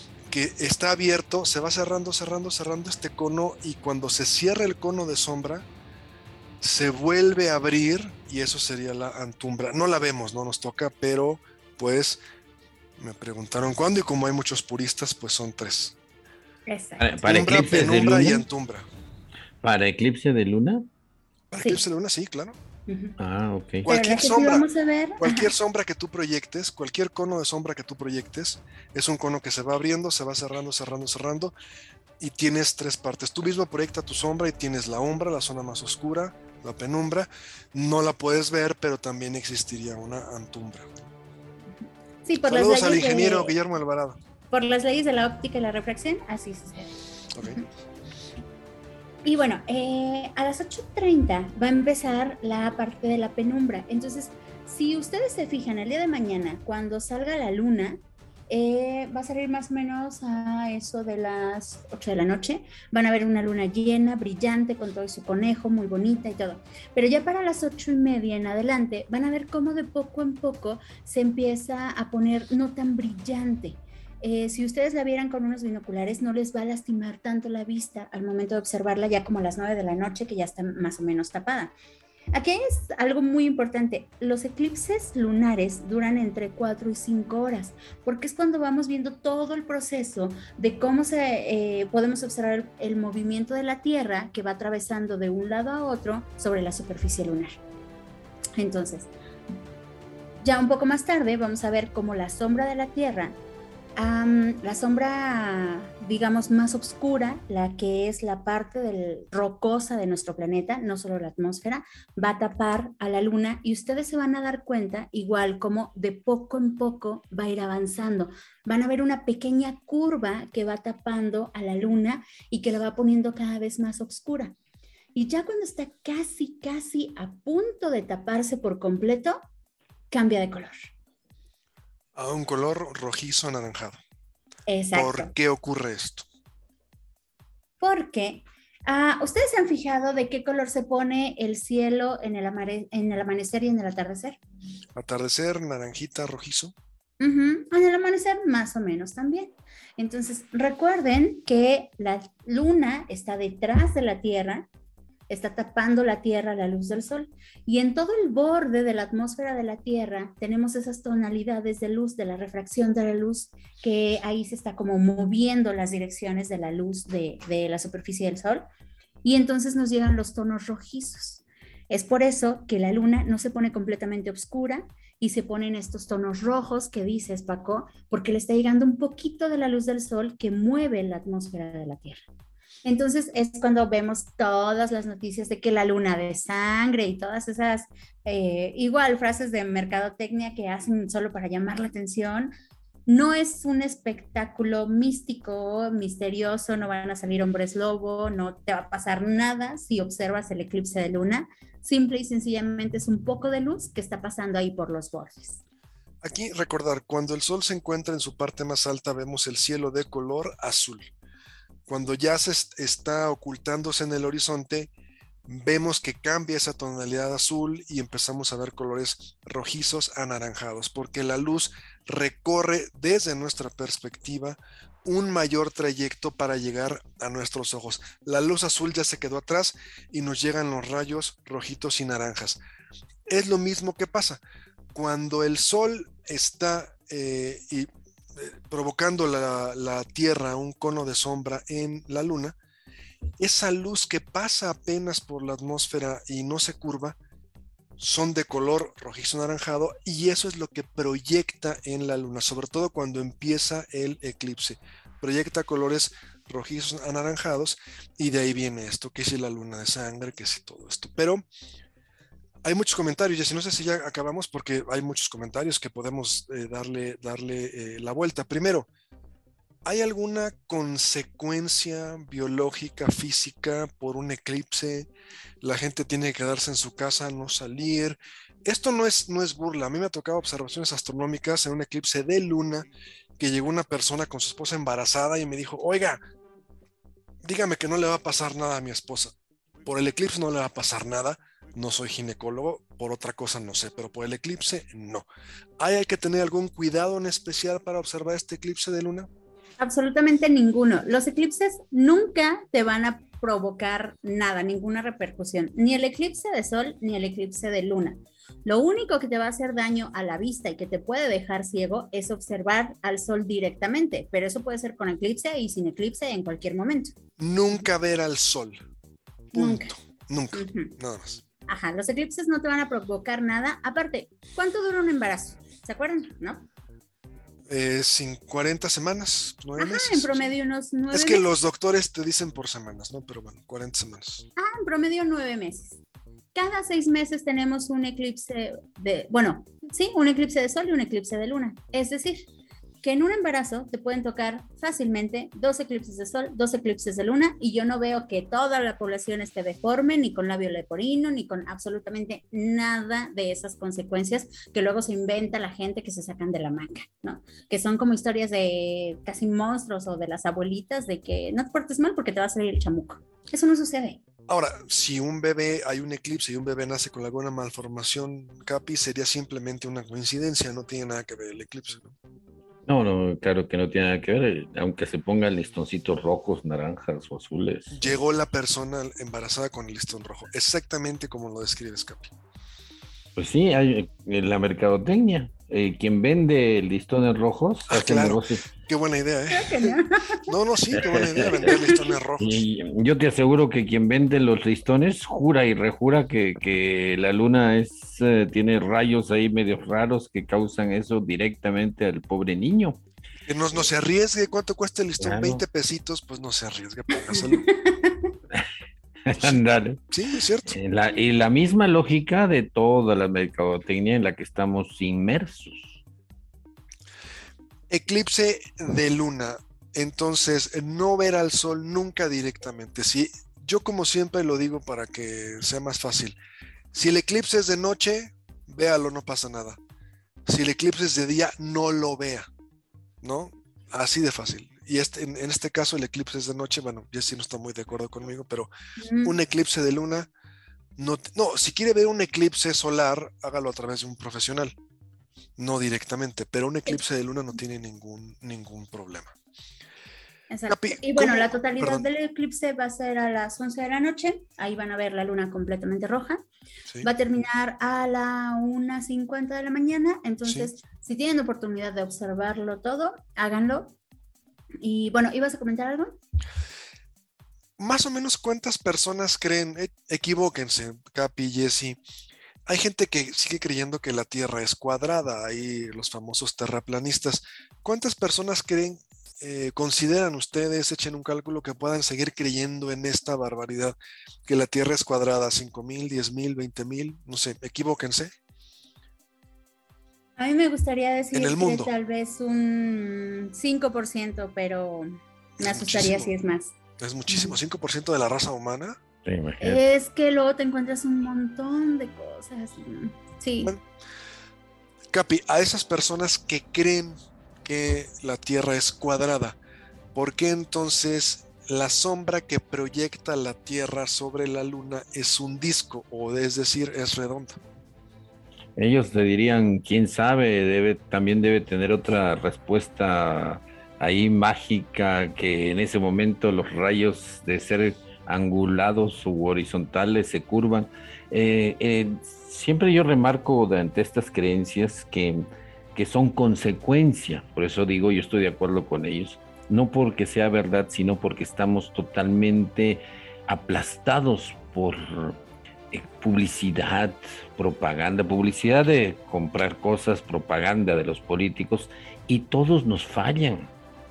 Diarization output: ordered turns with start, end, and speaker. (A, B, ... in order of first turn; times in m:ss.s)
0:00.3-0:05.7 A
0:06.6-0:12.2 A
0:13.0-0:16.0 A
0:16.7-0:17.1 B
0:17.0-0:18.4 C
0:17.2-0:18.9 A
0:19.6-0:20.9 C
0:21.5-0:22.6 A
0:22.9-0:23.2 B
0:23.2-0:23.9 C
0:23.8-0:24.7 A
0:23.9-0:25.5 B
0:25.2-0:31.5 A
0:32.2-0:40.9 A
0:42.2-0:43.6 B
0:42.5-0:44.2 A
0:44.5-0:47.6 B
0:47.4-0:47.6 A
0:49.2-1:21.7 B
1:22.3-1:37.6 B
1:38.6-1:39.1 B
1:40.4-1:43.4 B
1:44.0-2:04.6 B
2:05.2-2:09.4 B
2:10.1-2:10.8 B
2:12.2-2:14.0 A
2:14.7-2:15.3 B
2:14.9-2:16.3 A
2:17.8-2:24.4 B
2:25.0-2:26.7 A
2:27.2-2:34.7 B
2:35.3-2:48.6 B
2:49.2-3:02.2 B
3:02.8-3:12.5 B
3:13.1-3:25.6 B
3:26.2-3:31.1 A
3:31.9-3:34.9 A
3:35.5-3:52.6 A
3:53.3-3:54.4 A
3:54.9-4:02.6 A
4:03.4-4:07.2 A
4:08.0-4:21.4 A
4:22.6-4:28.9 A
4:29.8-4:35.1 A
4:35.6-4:42.9 A
4:43.4-4:46.2 A
4:47.4-4:55.2 A
4:55.8-4:59.3 A
4:59.8-5:17.2 B
5:17.4-5:18.8 A
5:19.5-5:19.9 B
5:19.6-5:21.4 A
5:20.5-5:20.9 B
5:21.7-5:26.7 B
5:27.7-5:30.4 A
5:29.8-5:31.4 B
5:31.1-5:34.5 A
5:34.6-5:36.0 B
5:36.5-5:42.5 B
5:43.0-6:04.2 B
6:04.5-6:12.2 A
6:12.9-6:18.1 C
6:17.9-6:22.3 A
6:23.4-6:28.7 C
6:27.9-6:32.6 A
6:29.5-6:30.5 B
6:30.9-6:31.7 C
6:31.4-6:32.0 B
6:32.4-6:43.0 C
6:43.5-6:47.7 A
6:45.2-6:45.6 C
6:47.3-6:48.3 B
6:49.3-6:50.0 C
6:49.4-6:50.7 A
6:50.7-6:56.0 C
6:57.9-7:06.4 A
7:06.9-7:09.8 A
7:10.5-7:12.5 A
7:13.2-7:18.7 A
7:19.0-7:19.4 B
7:19.2-7:20.3 A
7:21.0-7:24.8 A
7:25.6-7:29.4 A
7:30.5-7:36.4 B
7:30.7-7:32.0 A
7:37.0-7:44.0 B
7:40.5-7:40.7 A
7:44.8-7:46.2 B
7:47.8-7:52.0 A
7:52.7-8:08.3 A
8:10.4-8:16.8 B
8:11.3-8:11.9 A
8:15.6-8:16.3 A
8:17.0-8:19.0 A
8:17.3-8:17.6 B
8:19.3-8:19.8 C
8:19.6-8:23.7 B
8:25.1-8:29.6 A
8:30.2-8:37.6 A
8:38.8-8:55.4 C
8:56.0-9:05.4 C
9:05.9-9:13.7 C